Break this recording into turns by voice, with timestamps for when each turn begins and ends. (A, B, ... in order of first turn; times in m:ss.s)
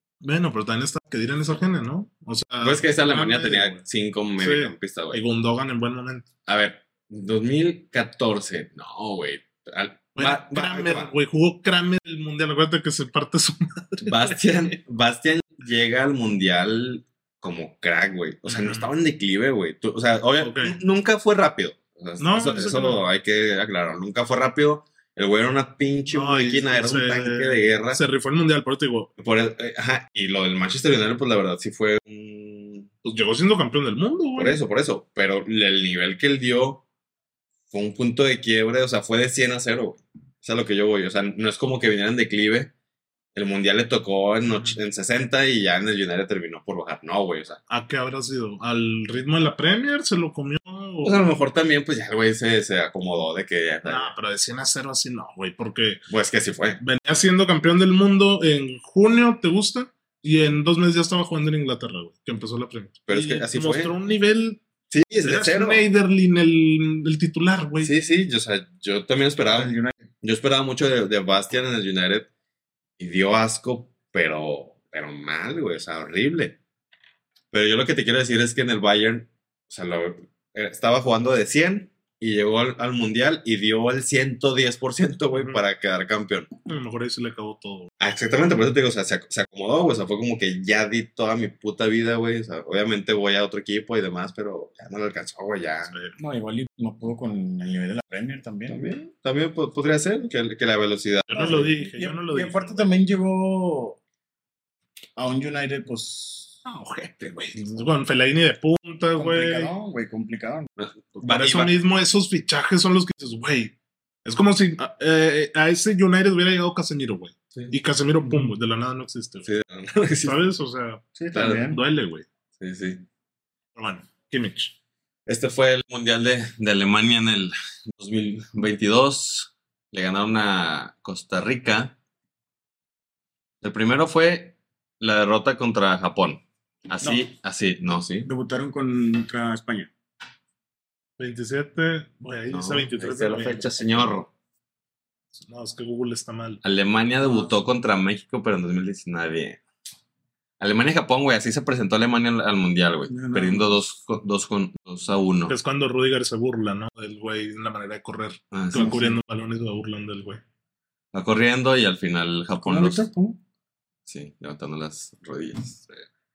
0:00.2-0:03.8 A
0:02.6-0:05.2 B
0:04.4-0:06.3 A
0:06.5-0:11.1 B
0:10.2-0:14.4 A
0:14.0-0:28.0 B
0:18.4-0:18.9 A
0:20.4-0:20.8 A
0:22.2-0:23.0 A
0:26.1-0:29.1 A
0:29.2-0:32.9 B
0:33.0-0:34.6 A
0:34.4-0:36.8 B
0:37.7-0:42.7 B
0:43.4-0:47.6 B
0:44.4-0:44.8 A
0:47.7-0:51.3 A
0:51.0-0:54.1 B
0:53.8-0:56.1 A
0:56.1-0:56.8 B
0:56.8-1:04.6 A
1:03.1-1:04.0 B
1:04.9-1:05.8 B
1:05.2-1:07.9 A
1:07.8-1:12.3 B
1:09.5-1:09.9 C
1:13.0-1:16.6 B
1:17.5-1:26.5 B
1:25.3-1:25.6 A
1:26.7-1:27.9 A
1:28.0-1:36.0 B
1:35.9-1:36.2 A
1:36.2-1:38.9 C
1:38.7-1:41.7 B
1:41.3-1:42.9 A
1:41.3-1:44.0 C
1:45.2-1:46.6 C
1:46.6-1:49.7 A
1:49.2-1:50.7 C
1:50.8-1:51.7 B
1:51.2-1:59.5 A
1:59.4-2:00.5 B
2:00.2-2:02.3 A
2:01.2-2:01.8 C
2:02.6-2:03.1 B
2:03.8-2:04.7 A
2:05.3-2:12.0 B
2:13.6-2:18.3 B
2:17.0-2:17.3 C
2:18.2-2:19.9 C
2:21.2-2:24.1 A
2:22.5-2:24.3 B
2:25.4-2:26.6 A
2:26.6-2:29.6 B
2:27.2-2:27.6 C
2:30.6-2:35.6 B
2:33.1-2:33.8 C
2:35.5-2:40.4 A
2:38.5-2:39.0 B
2:38.7-2:39.2 C
2:41.1-2:43.1 B
2:42.6-2:43.4 C
2:44.1-2:46.1 B